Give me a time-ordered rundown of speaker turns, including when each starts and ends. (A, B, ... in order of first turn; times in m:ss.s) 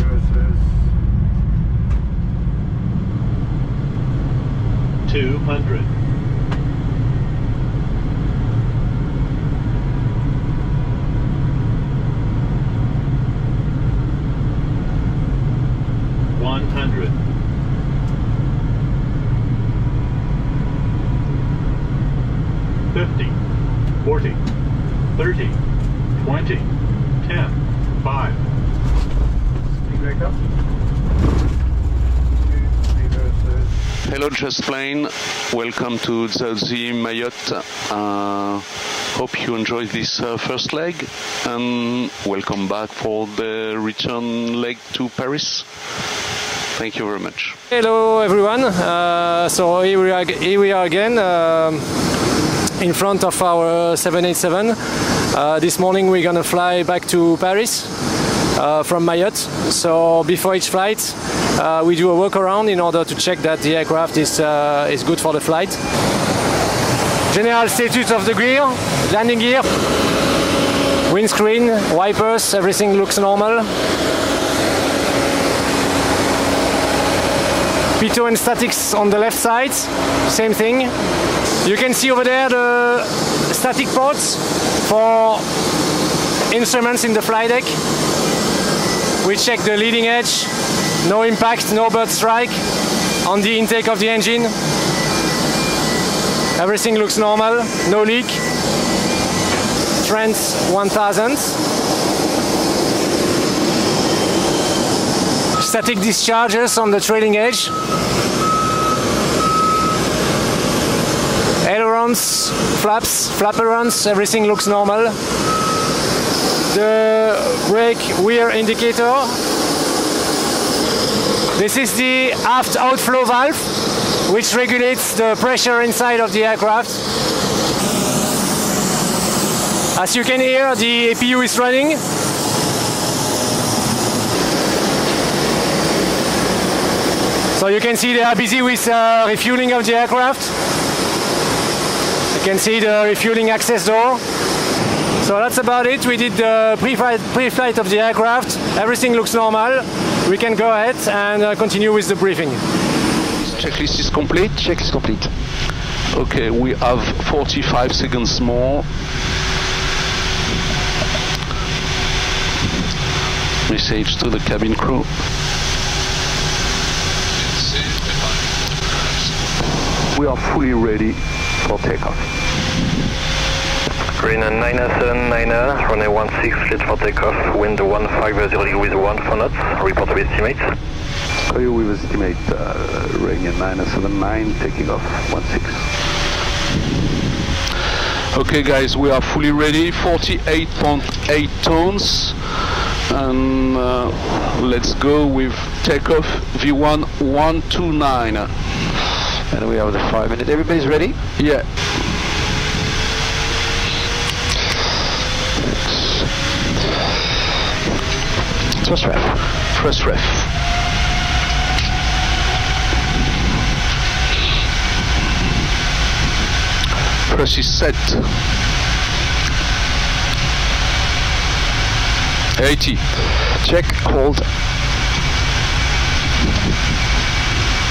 0:05.1-0:05.9 A
0:16.3-0:17.1 A
0:22.9-0:23.4 A
0:24.0-0:24.4 A
0:25.2-0:25.6 A
0:26.2-0:26.7 A
0:27.2-0:28.4 A
0:34.0-0:45.7 B
0:46.8-0:47.6 B
0:47.7-0:51.8 C
0:52.8-0:58.0 C
0:58.5-1:05.8 C
1:07.3-1:09.7 C
1:11.1-1:13.8 C
1:18.0-1:21.0 C
1:21.6-1:25.5 C
1:26.5-1:27.8 C
1:29.2-1:32.7 C
1:33.2-1:34.6 C
1:36.6-1:38.4 C
1:40.0-1:41.6 C
1:45.6-1:47.8 C
1:51.6-1:55.2 C
1:56.7-1:59.4 C
2:01.6-2:07.0 C
2:09.9-2:12.0 C
2:17.6-2:20.6 C
2:22.3-2:24.2 C
2:25.2-2:32.6 C
2:33.4-2:34.5 B
2:34.5-2:35.3 D
2:36.1-2:38.9 B
2:43.7-2:45.2 B
2:47.4-2:49.4 B
2:50.1-2:52.2 B
2:54.1-3:00.7 E
3:01.5-3:05.9 B
3:08.3-3:12.4 B
3:13.1-3:18.5 B
3:19.5-3:21.2 D
3:21.4-3:21.8 B
3:25.6-3:26.3 D
3:28.8-3:29.5 D
3:29.7-3:30.5 B
3:37.3-3:38.4 B
3:42.6-3:43.1 B
3:43.4-3:44.5 D